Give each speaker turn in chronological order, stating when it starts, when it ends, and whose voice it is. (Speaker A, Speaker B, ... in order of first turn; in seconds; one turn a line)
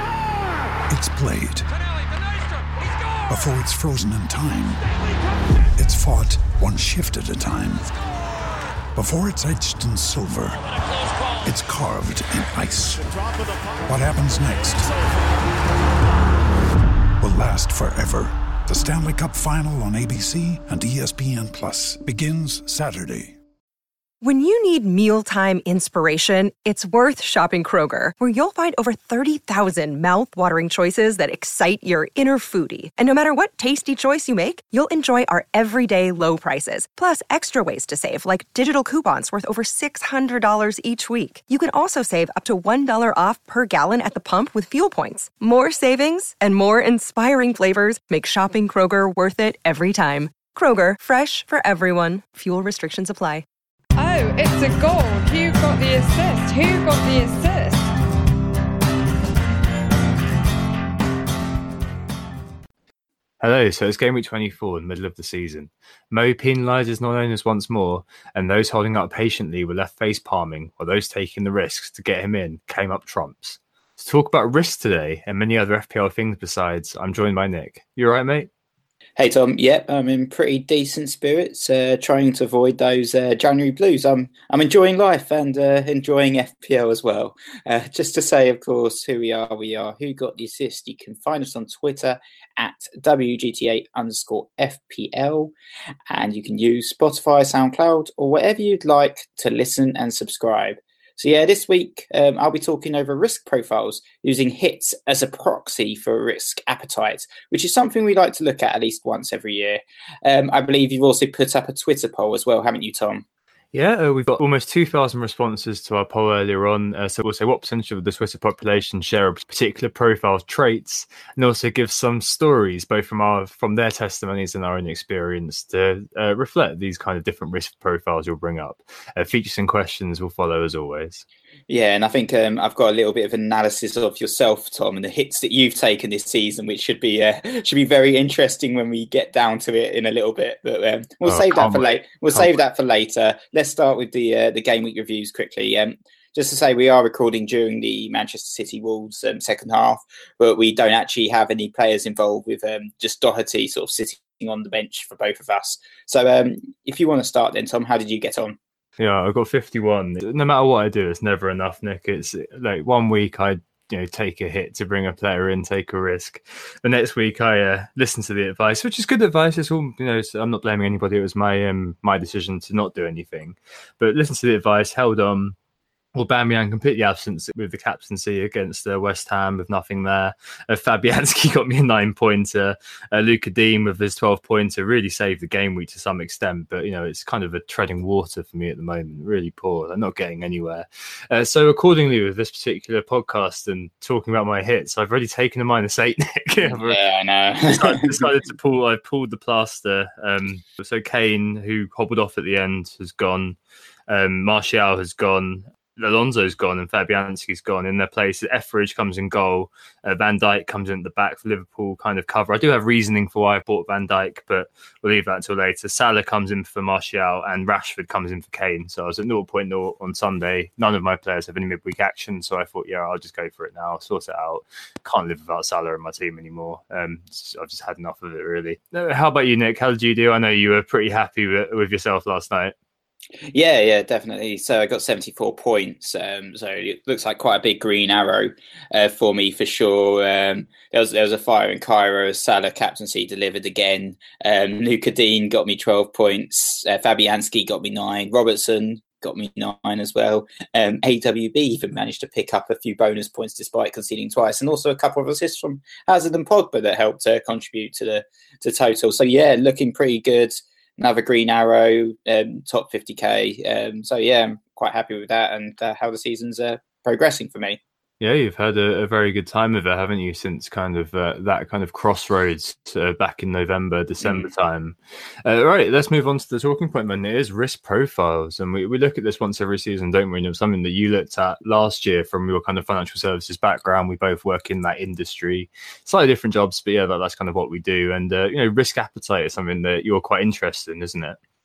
Speaker A: 0.9-1.7
Speaker A: 3.3-4.8
Speaker A: 5.8-7.9
Speaker A: 8.9-10.6
Speaker A: 11.4-13.1
Speaker A: 13.8-14.9
Speaker A: 17.2-23.4
Speaker B: 24.2-53.5
Speaker C: 54.0-58.0
Speaker D: 63.4-78.5
Speaker E: 79.2-95.5
Speaker E: 96.1-113.2
Speaker D: 113.7-131.2
Speaker E: 131.7-158.6
Speaker D: 141.2-142.5
Speaker D: 159.0-175.6
Speaker D: 176.2-197.0
Speaker E: 196.6-198.3
Speaker D: 197.7-203.6
Speaker D: 204.1-232.8
Speaker E: 233.5-267.8
Speaker D: 268.2-291.4
Speaker E: 274.2-274.5